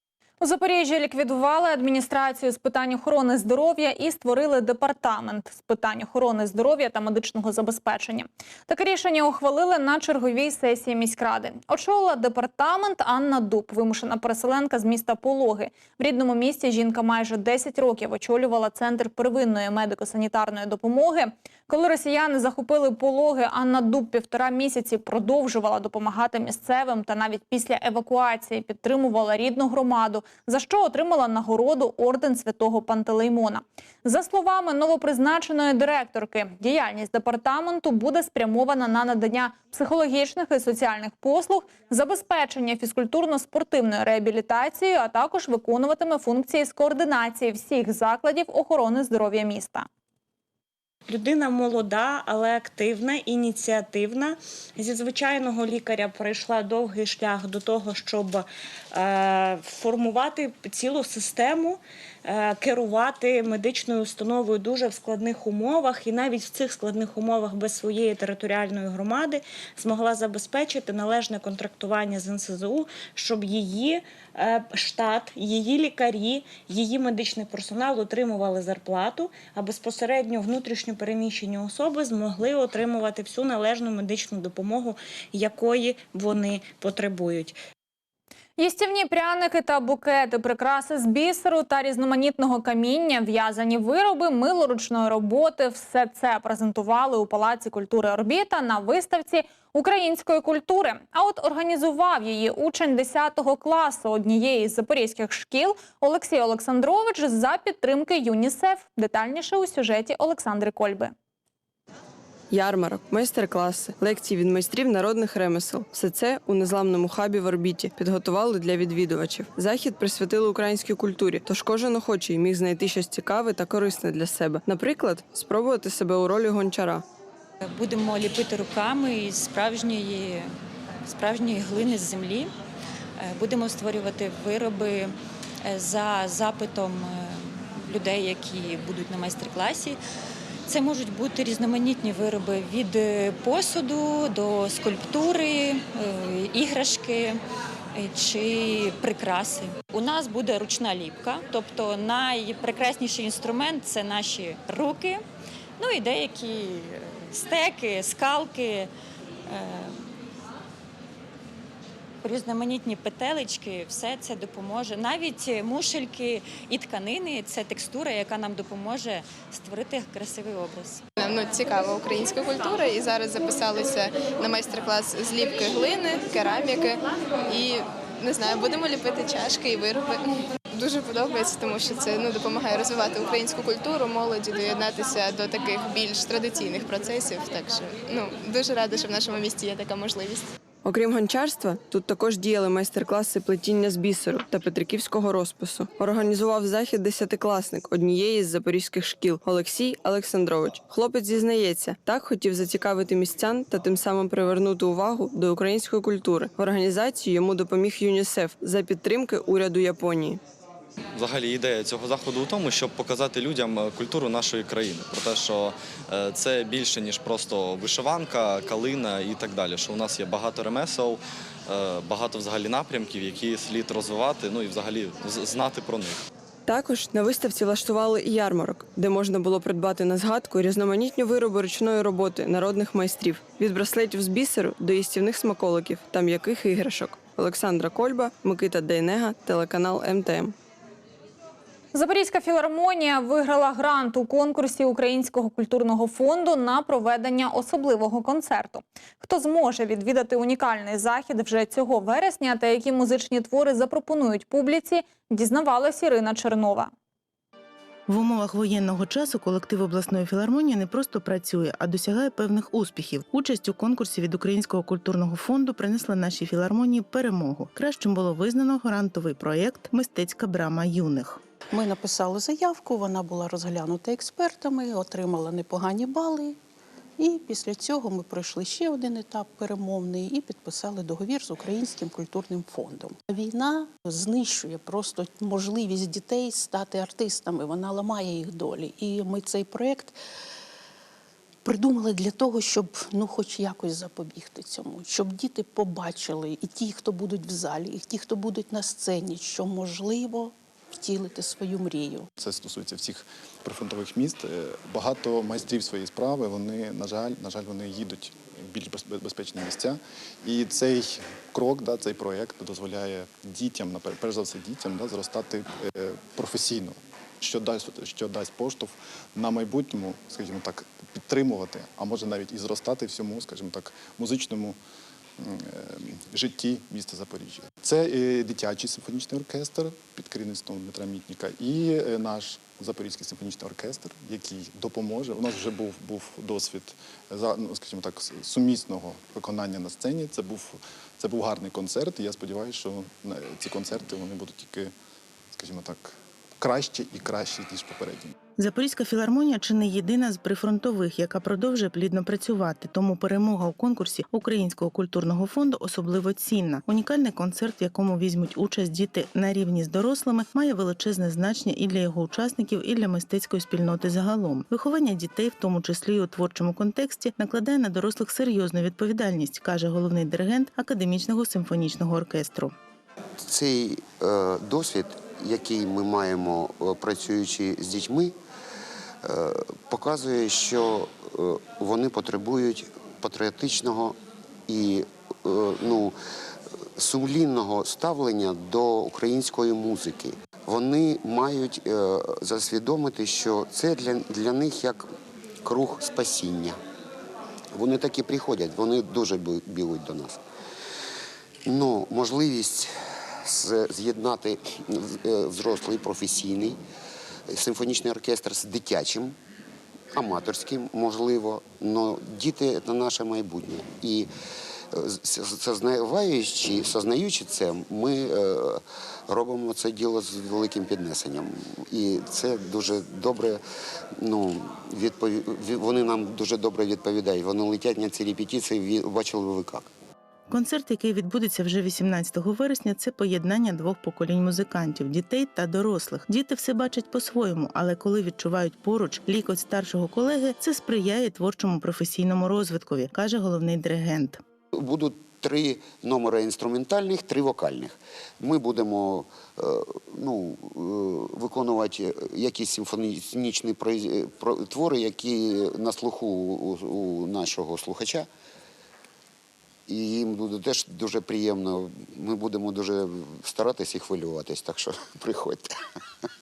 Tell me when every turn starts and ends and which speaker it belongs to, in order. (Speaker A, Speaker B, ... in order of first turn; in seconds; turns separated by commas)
Speaker A: 0.4-49.9, Speaker B: 51.1-87.6, Speaker A: 88.6-111.1, Speaker C: 112.5-127.0, Speaker D: 127.6-130.5, Speaker D: 131.1-132.5, Speaker D: 133.2-140.0, Speaker D: 140.7-147.4, Speaker D: 147.9-155.2, Speaker D: 155.8-158.9, Speaker D: 159.5-160.1, Speaker D: 162.2-171.0, Speaker E: 171.2-190.5, Speaker C: 190.8-210.4, Speaker F: 211.1-226.2, Speaker C: 226.7-240.5, Speaker A: 241.9-256.9, Speaker G: 258.1-271.4, Speaker H: 271.7-276.6, Speaker H: 277.2-290.1, Speaker H: 291.6-302.3, Speaker I: 302.4-324.8, Speaker I: 325.4-344.9, Speaker I: 345.5-348.3, Speaker G: 348.6-372.7, Speaker J: 373.4-378.3, Speaker J: 379.2-386.1, Speaker J: 386.9-395.1, Speaker J: 395.6-396.8, Speaker J: 397.8-400.4, Speaker J: 401.6-402.9, Speaker J: 403.4-406.8, Speaker J: 407.5-409.4, Speaker J: 410.1-414.3, Speaker J: 414.9-423.6, Speaker J: 424.2-429.9, Speaker G: 430.5-444.4, Speaker J: 444.7-458.3, Speaker J: 459.9-465.7